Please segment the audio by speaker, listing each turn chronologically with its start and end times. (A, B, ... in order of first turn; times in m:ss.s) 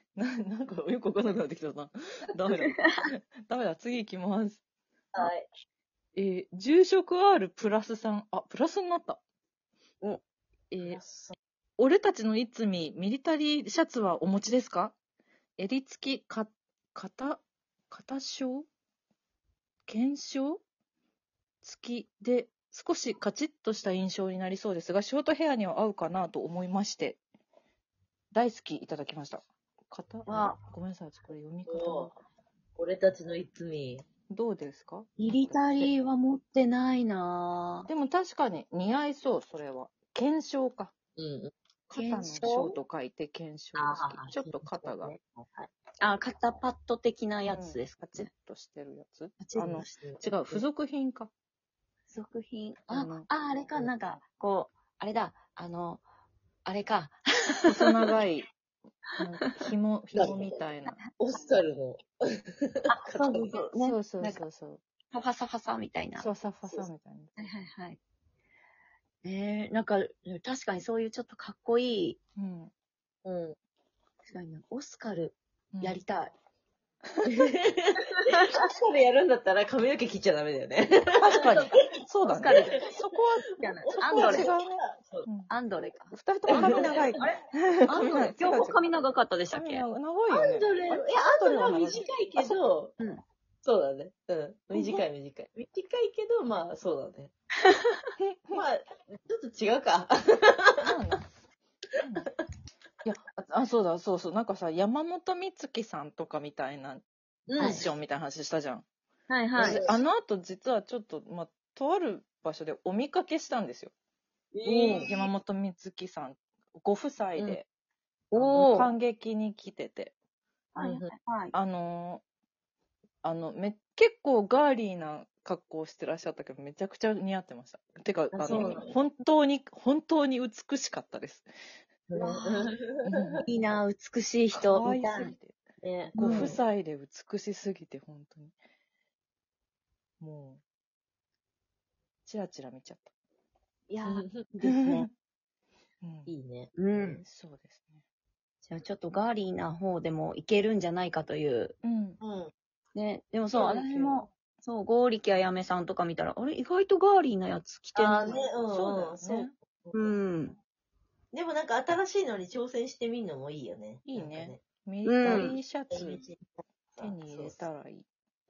0:00.2-0:04.6 A
0:05.1-0:05.5 B
0:06.2-0:09.2 A
0:10.7-0:11.0 A
0:10.8-0:11.4 B
0:11.8-0:15.0 A
0:15.6-0:18.7 A
0:19.9-0:20.6 A
0:21.6-0:27.2 A
0:28.3-0:32.2 A
0:30.3-0:30.6 C
0:31.7-0:32.1 B
0:32.8-0:34.1 B
0:34.3-0:35.9 A
0:35.2-0:37.9 C
0:37.9-0:40.9 A
0:41.2-0:41.5 B
0:41.9-0:45.1 A
0:41.9-0:42.5 C
0:42.4-0:42.8 B
0:43.8-0:45.7 B
0:46.0-0:48.3 C
0:47.5-0:51.3 A
0:49.4-0:49.9 C
0:49.6-0:50.6 B
0:52.1-0:56.0 C
0:52.9-0:53.3 A
0:56.7-0:57.9 C
0:57.7-0:58.5 A
0:59.2-0:59.7 C
0:59.2-1:01.0 A
1:00.1-1:00.6 B
1:01.2-1:03.6 B
1:02.9-1:04.4 C
1:03.8-1:04.8 A
1:05.1-1:06.9 C
1:06.2-1:07.4 A
1:07.4-1:08.0 C
1:09.2-1:12.2 C
1:12.4-1:12.7 A
1:13.2-1:13.6 B
1:14.3-1:16.3 C
1:15.7-1:16.0 A
1:17.3-1:21.5 B
1:18.1-1:18.6 C
1:21.2-1:23.2 A
1:21.4-1:21.7 C
1:22.2-1:24.6 C
1:22.4-1:22.8 B
1:23.8-1:25.3 B
1:24.1-1:25.5 A
1:25.5-1:29.9 C
1:26.1-1:28.8 A
1:26.5-1:27.4 B
1:29.5-1:32.1 A
1:30.3-1:33.0 B
1:32.4-1:33.2 C
1:33.6-1:37.3 B
1:34.8-1:35.0 C
1:38.2-1:38.6 A
1:38.5-1:40.8 B
1:40.8-1:41.4 A
1:42.0-1:42.3 A
1:43.0-1:47.0 A
1:47.5-1:47.9 B
1:47.6-1:48.8 A
1:47.6-1:47.8 C
1:49.3-1:49.8 C
1:49.6-1:53.9 A
1:49.6-1:50.0 B
1:54.6-1:55.3 C
1:54.6-1:57.7 A
1:54.8-1:55.1 B
1:58.3-1:58.9 C
1:58.4-2:00.1 A
2:00.8-2:01.5 C
2:00.8-2:01.1 B
2:01.5-2:02.2 A
2:03.2-2:11.5 A
2:08.3-2:09.0 C
2:08.4-2:09.0 B
2:12.1-2:13.4 B
2:12.1-2:12.7 C
2:13.0-2:13.4 A
2:13.4-2:15.3 C
2:14.5-2:15.6 A
2:15.8-2:16.6 B
2:16.2-2:18.6 A
2:16.2-2:16.6 C
2:20.2-2:20.6 A
2:22.2-2:23.1 A
2:23.9-2:25.1 C
2:24.0-2:24.5 B
2:24.7-2:25.1 A
2:26.0-2:26.3 A
2:26.3-2:27.2 B
2:26.8-2:27.2 C
2:27.2-2:28.0 A
2:28.7-2:31.8 C
2:31.8-2:32.2 A
2:32.2-2:32.5 B
2:33.0-2:38.4 C
2:33.6-2:34.2 A
2:38.0-2:40.1 B
2:38.7-2:39.5 A
2:39.9-2:40.6 C
2:41.3-2:44.6 B
2:44.1-2:46.2 A
2:45.0-2:45.6 C
2:45.2-2:47.6 B
2:47.0-2:48.1 A